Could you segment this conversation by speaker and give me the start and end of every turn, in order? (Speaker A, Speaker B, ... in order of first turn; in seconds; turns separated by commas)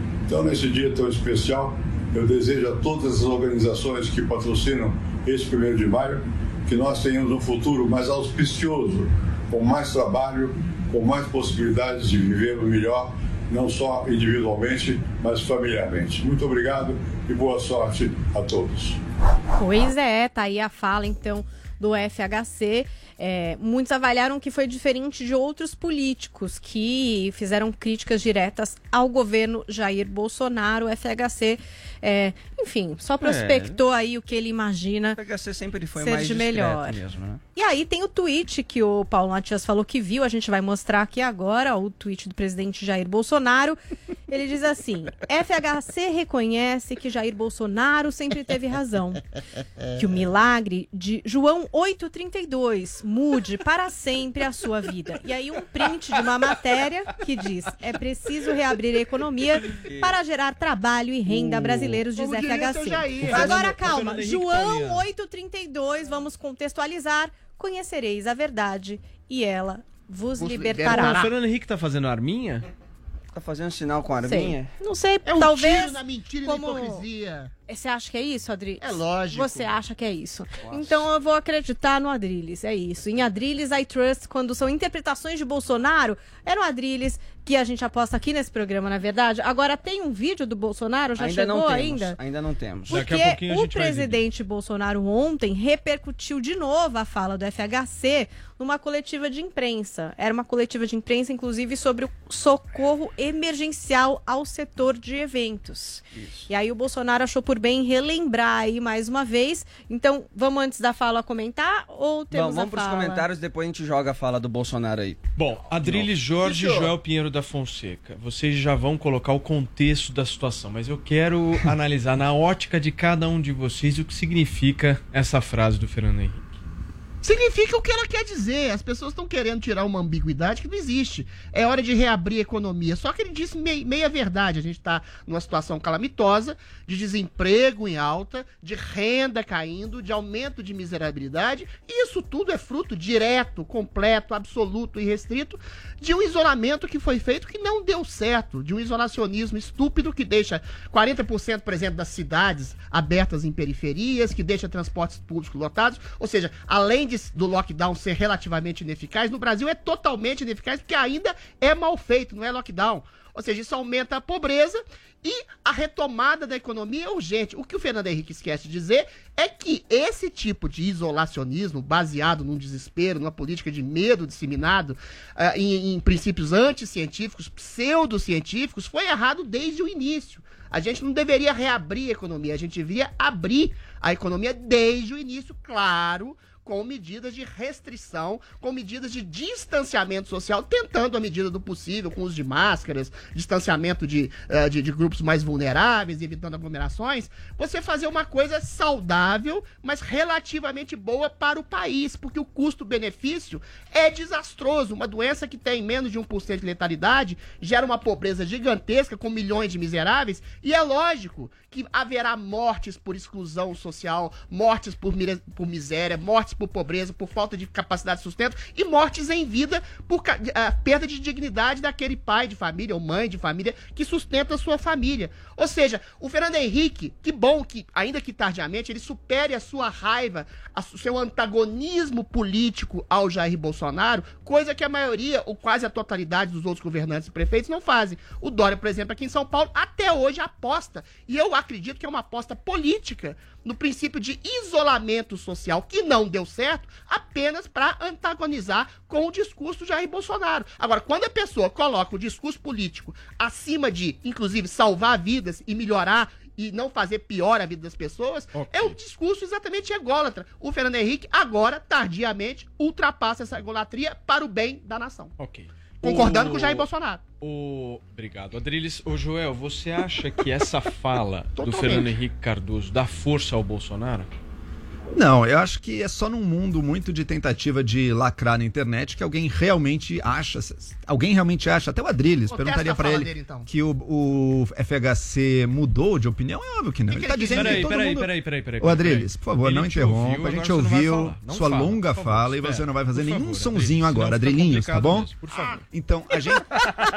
Speaker A: 0.3-19.0, Speaker B: 19.6-35.2, Speaker C: 33.2-33.8, Speaker C: 35.1-37.4, Speaker B: 36.0-37.0, Speaker B: 37.5-43.8, Speaker B: 44.3-49.2, Speaker B: 50.0-71.1, Speaker C: 59.8-60.2, Speaker D: 61.5-63.6, Speaker E: 63.2-65.0, Speaker C: 63.3-63.6, Speaker D: 70.4-71.3, Speaker E: 70.9-72.7, Speaker C: 73.3-74.7, Speaker B: 74.2-77.0, Speaker D: 75.2-77.5, Speaker B: 77.7-92.2, Speaker D: 78.8-79.7, Speaker C: 80.6-81.1, Speaker C: 91.2-93.0, Speaker B: 92.9-113.3, Speaker E: 92.9-94.2, Speaker C: 106.2-106.4, Speaker C: 112.3-115.3, Speaker E: 115.4-126.5, Speaker D: 116.4-116.9, Speaker D: 127.2-265.3, Speaker E: 258.6-259.0, Speaker E: 265.4-266.9, Speaker D: 266.0-267.2, Speaker E: 267.4-274.3, Speaker F: 275.1-288.3, Speaker D: 282.5-283.7, Speaker D: 287.1-287.9, Speaker E: 287.5-295.9, Speaker F: 288.8-295.3, Speaker F: 295.9-296.8